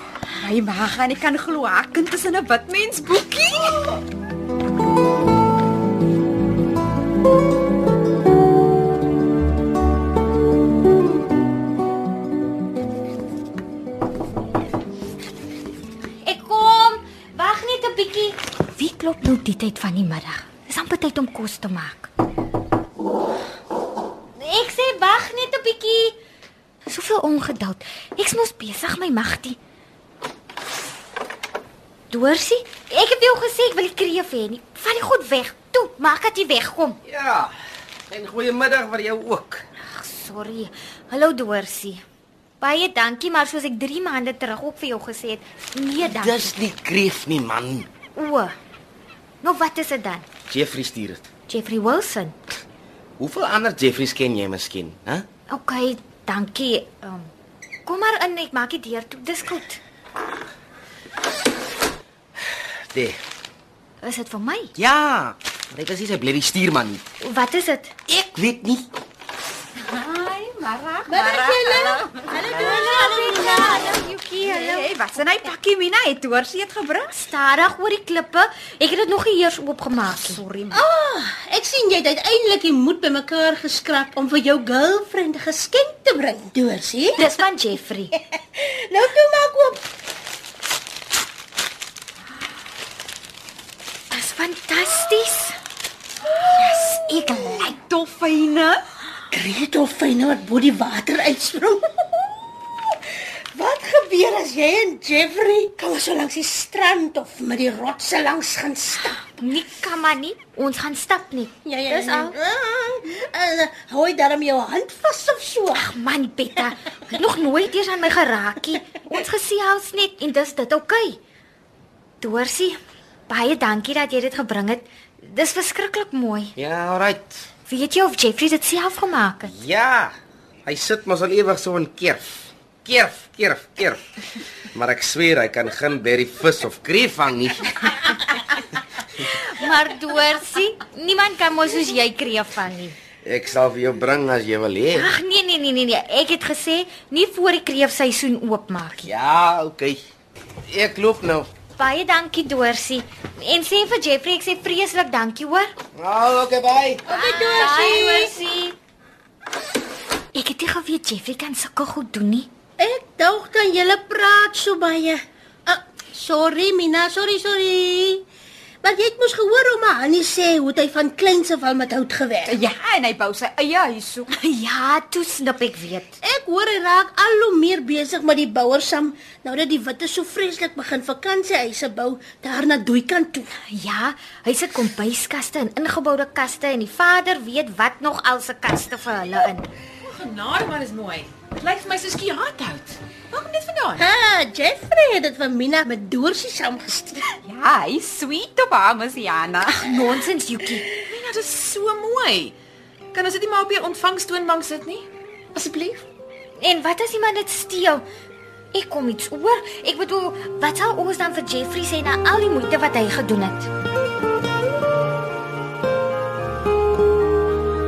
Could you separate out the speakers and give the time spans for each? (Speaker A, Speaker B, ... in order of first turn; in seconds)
Speaker A: 0.4-3.8, 69.8-72.8, 74.2-77.1, 80.2-80.8, 96.6-98.8, 172.4-174.3, 197.4-200.1
Speaker B: 3.1-4.0, 190.0-194.1, 201.0-202.5, 203.1-206.0
Speaker C: 16.2-22.1, 24.4-26.2, 26.9-29.6, 32.1-37.0, 39.9-42.0, 42.6-46.5, 48.1-48.5, 49.4-50.2, 51.5-52.3, 55.5-57.3, 57.9-59.8, 64.0-64.7, 67.2-67.9, 72.4-74.9, 77.1-80.4, 87.2-88.1, 94.1-95.6, 109.4-112.3, 115.7-121.2, 122.2-122.8, 123.3-126.5, 127.7-129.5, 139.2-142.9, 144.9-149.1, 151.8-155.7, 157.1-158.8, 160.3-162.5, 174.3-176.2, 183.7-189.7, 199.7-200.9, 206.6-208.0, 208.7-213.7
Speaker D: 37.0-37.5, 38.1-39.6, 46.0-47.9, 50.5-51.2, 53.2-55.2, 62.9-63.2, 64.8-67.0, 68.1-68.8, 126.5-127.4, 129.4-130.1, 130.7-134.0, 134.7-137.9, 143.2-145.1, 149.0-150.0, 150.7-151.5, 155.9-157.0
Speaker E: 71.0-74.0, 80.7-87.2, 88.3-89.8, 99.3-102.0, 103.5-109.2, 111.6-115.8, 157.1-158.3, 162.8-168.2, 168.8-172.6, 176.2-183.5, 194.0-197.3